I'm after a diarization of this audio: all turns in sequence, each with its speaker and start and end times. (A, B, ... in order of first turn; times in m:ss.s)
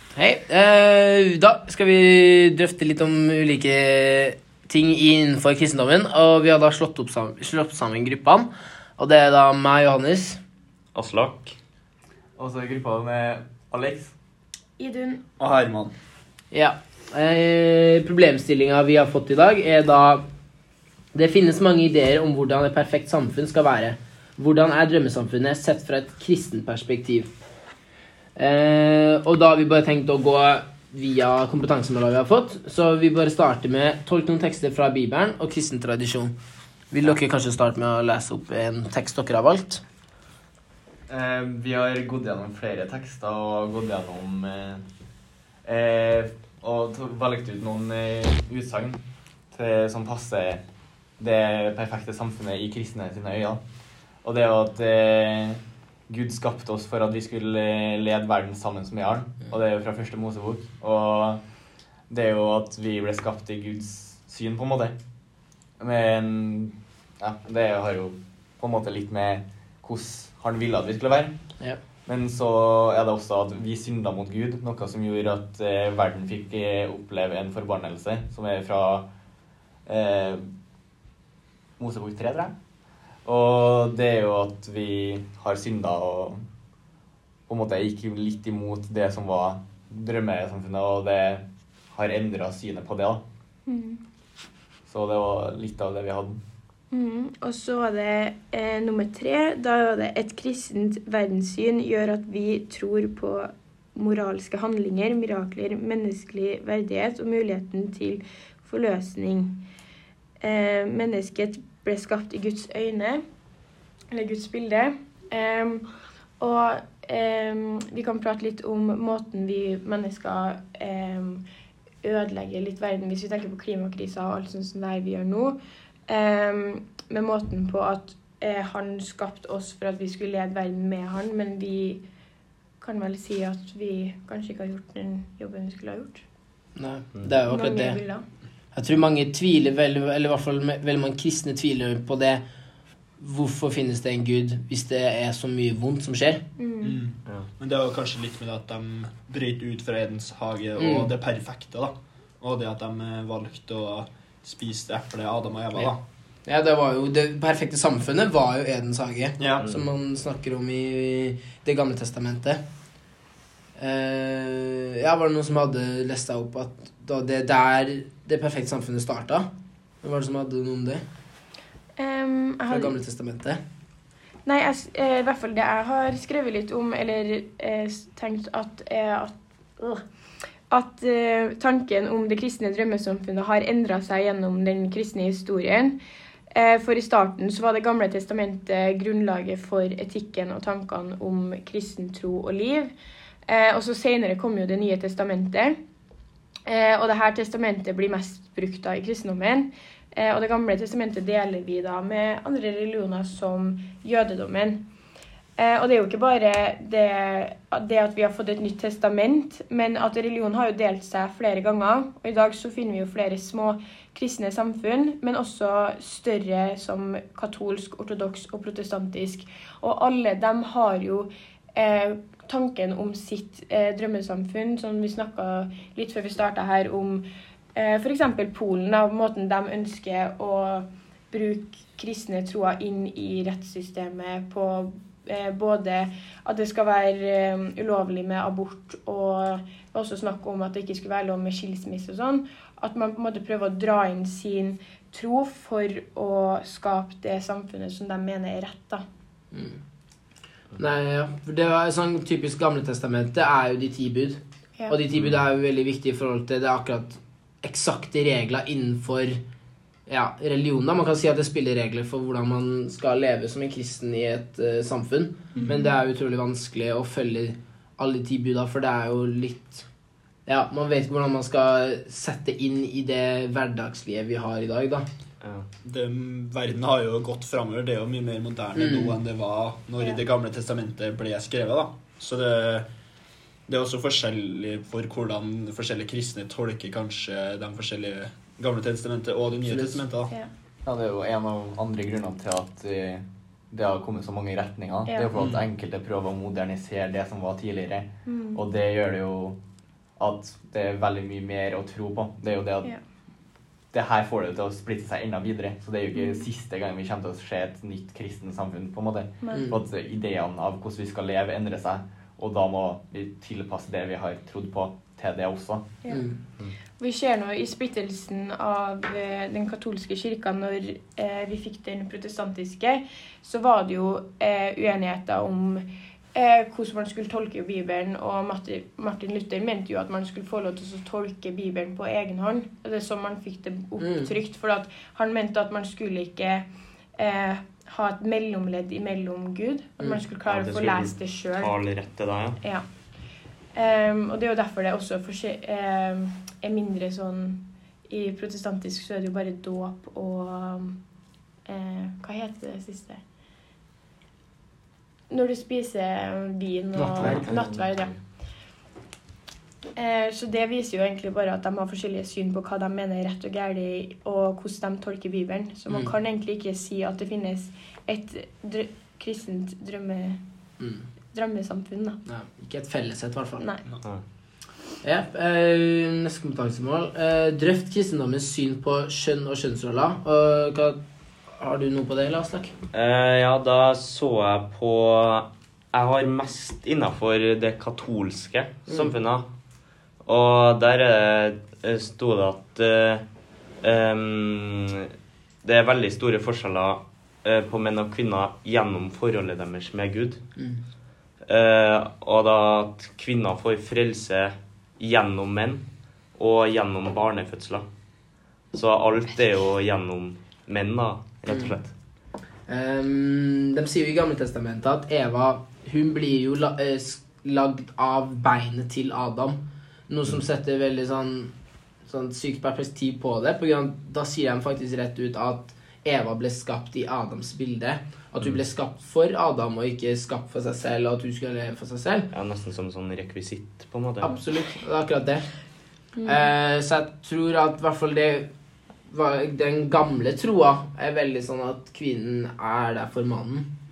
0:00.1-0:10.4 A
0:10.9-0:11.5 B
0:12.4-0:14.2 C
0:14.8-0:15.2 D
0:15.4-0:15.9 E
0:16.5-0:20.2 A
0:21.1-0:27.4 A
0:28.4-0:36.4 A
0:36.9-0:39.8 A
0:41.1-0:44.8 C
0:45.6-0:50.6 C
0:51.2-0:53.6 C
0:54.2-1:01.4 C
1:02.1-1:05.0 C
1:05.8-1:11.4 C
1:12.0-1:19.1 C
1:19.8-1:20.5 C
1:21.8-1:22.6 C
1:23.2-1:26.4 C
1:27.5-1:33.2 C
1:33.6-1:34.0 D
1:34.8-1:36.4 C
1:36.9-1:49.6 D
1:50.4-1:53.2 D
1:54.1-1:55.9 D
1:56.4-2:01.4 D
2:02.0-2:05.6 D
2:06.1-2:12.0 D
2:12.8-2:16.2 D
2:16.8-2:18.0 A
2:17.4-2:18.2 D
2:18.7-2:22.4 A
2:23.2-2:26.4 A
2:26.6-2:27.0 D
2:26.8-2:36.0 E
2:30.8-2:31.1 A
2:36.4-2:42.6 A
2:39.4-2:39.7 E
2:43.8-2:49.5 A
2:50.0-2:51.0 A
2:52.0-2:53.0 D
2:52.7-2:53.6 A
2:54.4-3:00.0 D
3:00.7-3:06.0 D
3:06.5-3:12.9 D
3:13.5-3:15.8 D
3:16.7-3:24.8 D
3:25.6-4:09.0 D
4:09.5-4:09.8 A
4:10.8-4:19.4 A
4:20.1-4:29.9 A
4:25.5-4:25.9 D
4:30.4-4:35.1 A
4:35.4-4:35.7 B
4:35.8-4:42.9 E
4:38.8-4:39.2 A
4:43.7-4:50.3 E
4:49.7-4:50.0 A
4:50.8-4:59.6 C
4:55.0-4:55.3 D
4:58.2-4:58.6 D
5:00.2-5:02.9 C
5:03.9-5:15.9 C
5:06.1-5:06.4 D
5:09.4-5:09.7 D
5:16.1-5:16.4 A
5:17.0-5:36.6 D
5:34.0-5:34.3 A
5:37.2-5:41.7 D
5:40.4-5:42.6 B
5:43.7-5:51.0 D
5:51.6-5:53.2 D
5:55.3-5:58.1 D
5:57.0-5:57.5 A
5:57.2-5:58.2 B
6:00.0-6:10.4 D
6:10.8-6:11.0 A
6:11.3-6:12.2 D
6:12.2-6:13.6 A
6:13.6-6:13.8 D
6:15.0-6:21.0 A
6:21.5-6:22.7 A
6:22.9-6:29.5 B
6:28.9-6:29.1 A
6:30.2-6:33.2 B
6:33.8-6:35.1 B
6:35.6-6:40.4 B
6:40.6-6:40.8 A
6:41.4-6:47.9 B
6:48.7-6:51.9 B
6:51.5-6:51.7 A
6:52.7-7:01.5 A
7:02.0-7:12.3 A
7:12.3-7:14.3 B
7:14.2-7:15.5 A
7:16.1-7:16.4 D
7:16.2-7:18.5 A
7:19.1-7:23.7 A